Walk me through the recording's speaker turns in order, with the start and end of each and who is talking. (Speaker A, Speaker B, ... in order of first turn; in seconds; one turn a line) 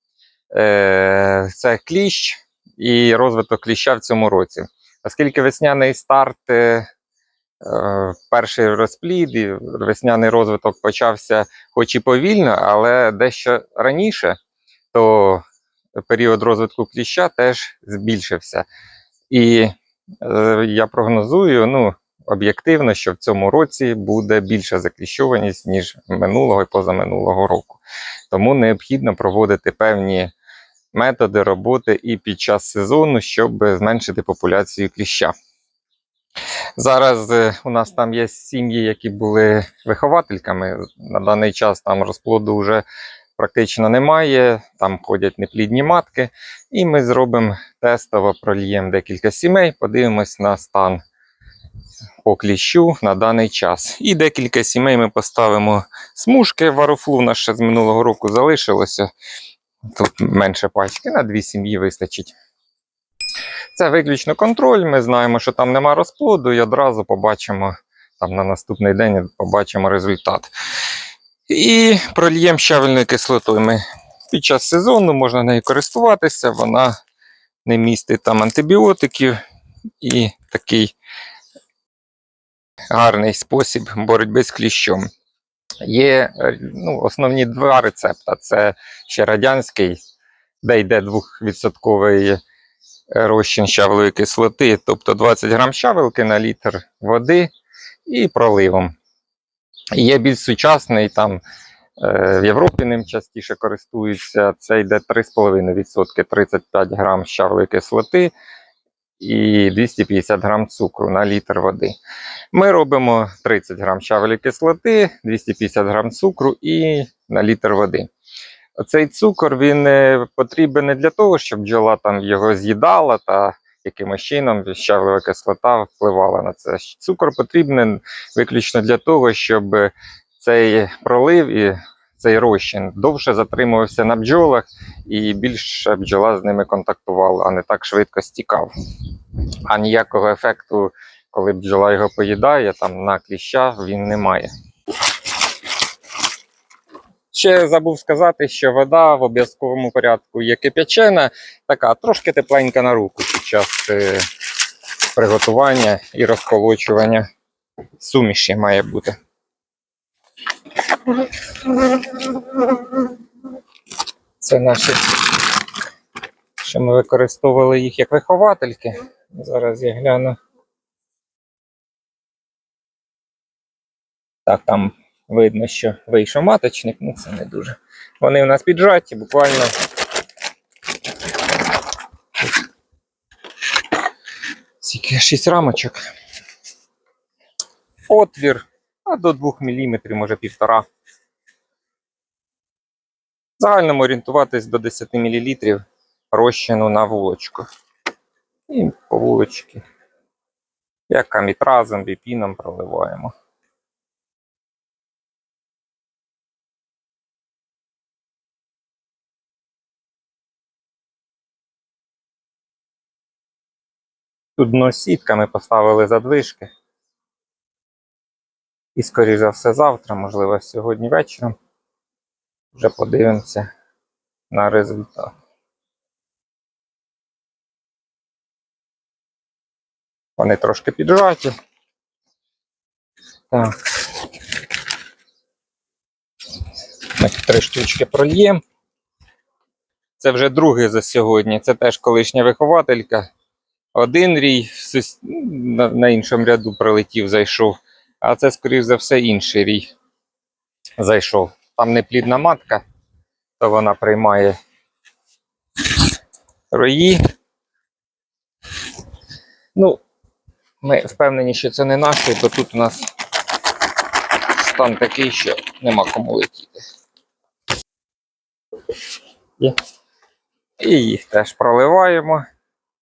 Speaker A: 0.5-6.9
Speaker A: 7.6-14.4
Speaker A: 14.9-15.4
Speaker A: 16.0-18.7
Speaker A: 19.3-30.3
Speaker A: 30.9-35.3
Speaker A: 36.8-42.8
Speaker A: 43.4-51.0
Speaker A: 52.2-59.1
Speaker A: 59.9-62.3
Speaker A: 63.7-70.5
Speaker A: 71.5-77.0
Speaker A: 77.6-79.4
Speaker A: 80.0-80.9
Speaker A: 82.9-85.1
Speaker A: 85.8-90.0
Speaker A: 90.6-92.4
Speaker A: 93.1-97.5
Speaker A: 98.1-98.9
Speaker A: 99.9-101.4
Speaker A: 102.0-108.3
Speaker A: 109.2-112.0
Speaker A: 112.5-118.1
Speaker A: 118.8-138.7
Speaker A: 139.7-144.5
Speaker A: 147.3-154.2
Speaker A: 155.1-157.3
Speaker A: 158.0-159.2
Speaker A: 164.4-165.2
Speaker A: 166.6-170.4
Speaker A: 174.4-179.7
Speaker A: 184.8-186.0
Speaker A: 188.1-190.8
Speaker A: 193.6-197.7
Speaker A: 198.7-199.8
Speaker A: 201.1-203.3
Speaker A: 214.6-216.7
Speaker A: 218.9-221.5
Speaker A: 222.7-223.7
Speaker A: 224.5-225.3
Speaker A: 230.4-231.5
Speaker A: 233.5-233.8
Speaker A: 237.1-238.6
Speaker A: 240.2-243.3
Speaker A: 243.9-249.9
Speaker A: 251.0-252.8
Speaker A: 253.6-254.6
Speaker A: 256.7-257.2
Speaker A: 259.7-260.0
Speaker A: 260.8-263.1
Speaker A: 264.4-266.8
Speaker A: 270.8-272.4